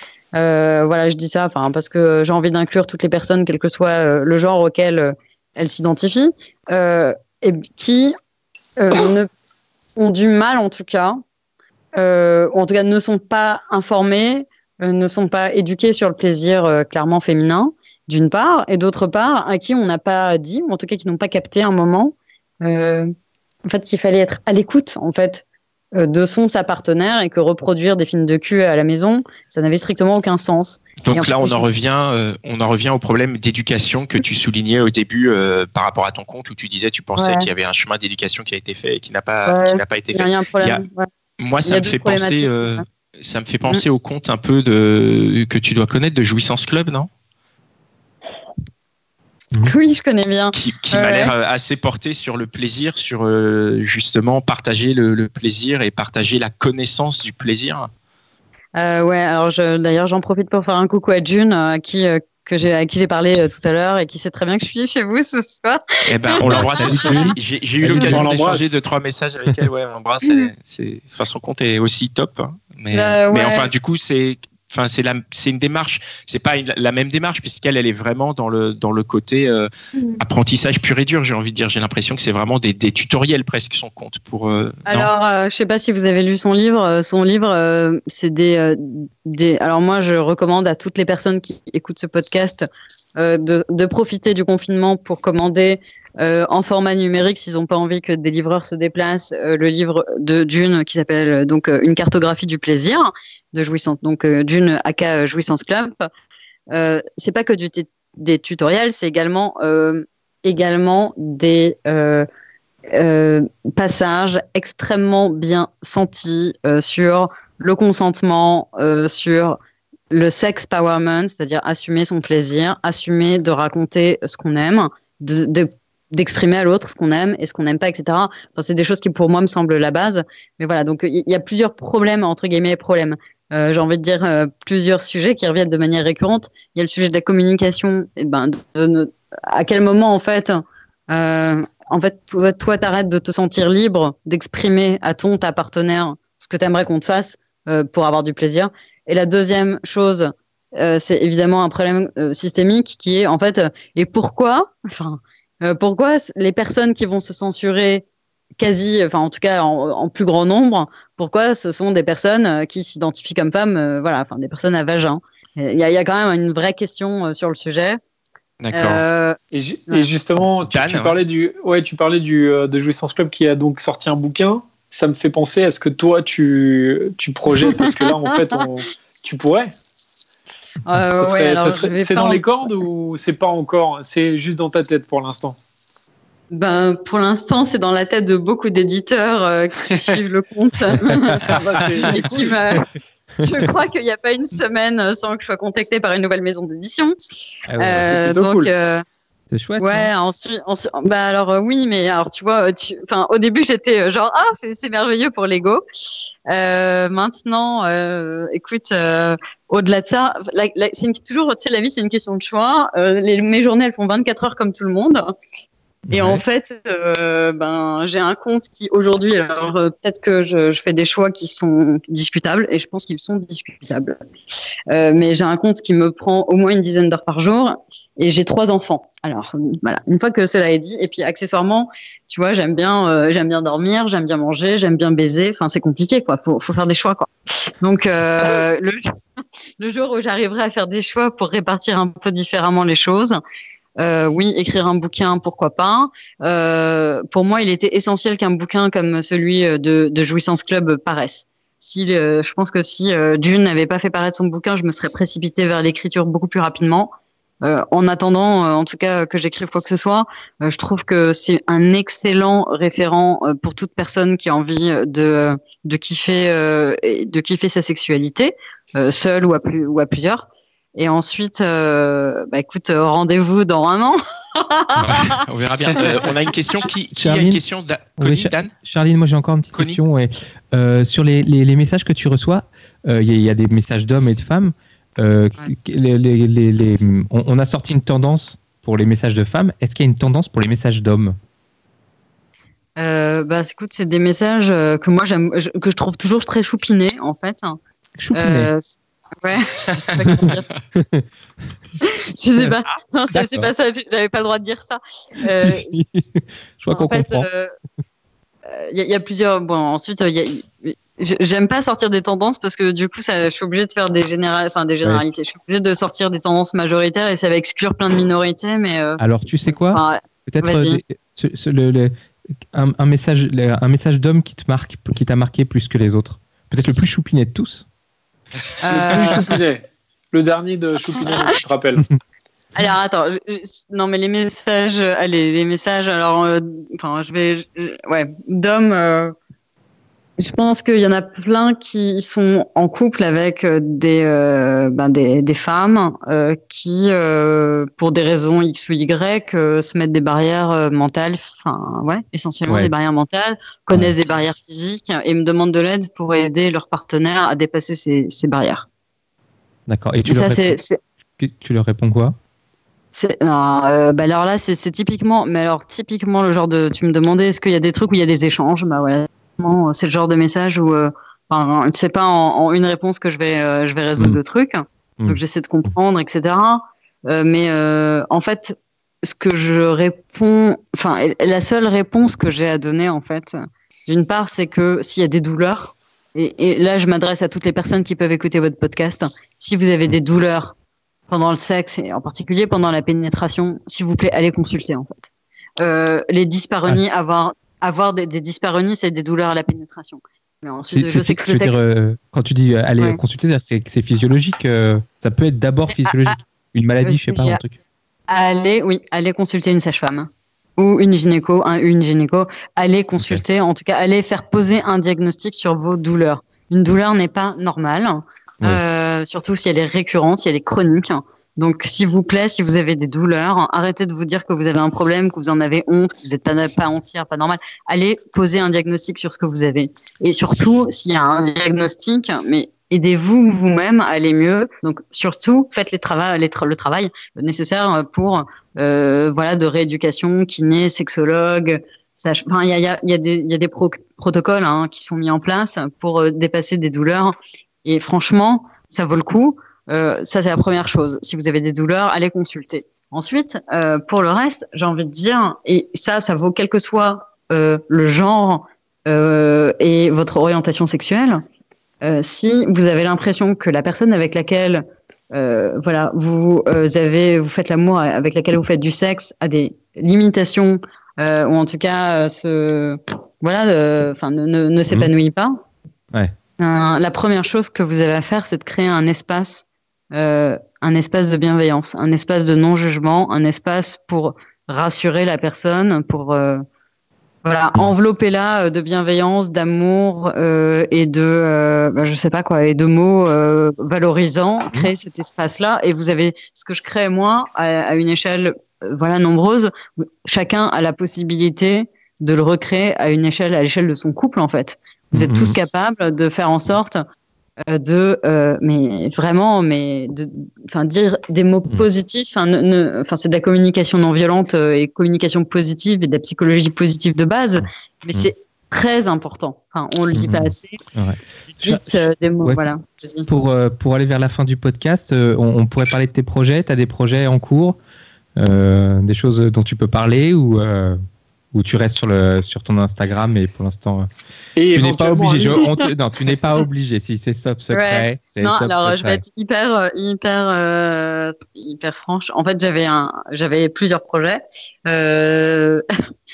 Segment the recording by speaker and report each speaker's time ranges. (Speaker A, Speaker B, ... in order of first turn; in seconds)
Speaker A: 0.3-8.2, 8.8-9.3, 9.9-11.2, 11.9-23.1, 23.7-25.4, 25.9-31.7, 37.2-37.5, 39.5-41.1, 41.7-42.8, 49.6-51.3, 58.8-67.4, 72.9-73.7, 84.9-92.6, 93.2-106.1, 106.7-112.3, 112.9-119.6, 120.1-158.1, 158.6-168.0, 168.7-169.4, 177.6-178.6, 180.8-182.5, 186.5-191.4, 192.0-192.9, 193.4-197.2, 197.8-199.0, 199.8-205.8, 206.5-215.3, 216.1-224.2, 224.9-239.1, 239.8-243.4, 244.0-275.3, 293.0-297.8, 298.3-300.7, 302.0-306.0, 306.9-307.7, 308.7-321.0, 328.8-329.5, 332.7-339.3, 340.4-358.9, 360.3-361.0, 363.1-390.7, 391.3-395.3, 395.8-401.8, 405.9-406.4, 407.0-407.6, 408.3-461.4, 462.0-475.6, 476.6-486.6, 487.4-507.0, 507.7-520.8, 521.6-523.3, 537.7-545.8
Speaker B: 31.0-40.8, 41.4-47.1, 50.5-57.9, 66.1-79.7, 80.2-85.1, 168.6-169.0, 170.7-171.1, 275.0-278.7, 279.7-280.0
Speaker C: 66.6-68.2, 197.7-198.1, 199.5-200.1, 216.1-216.4, 277.2-277.6, 278.2-291.4, 298.2-298.7, 300.2-301.2, 303.3-303.7, 305.6-307.5, 319.2-322.1, 322.7-327.9, 352.7-352.9, 359.9-360.8, 361.4-362.4, 375.2-375.9, 400.9-407.8, 505.1-505.6, 520.1-522.6, 523.3-527.8, 528.4-531.0, 531.5-534.1, 534.7-539.2
Speaker D: 67.8-68.7, 169.5-179.7, 181.2-185.6, 189.9-190.1, 191.4-192.4, 198.0-198.7, 328.9-332.1, 534.6-535.7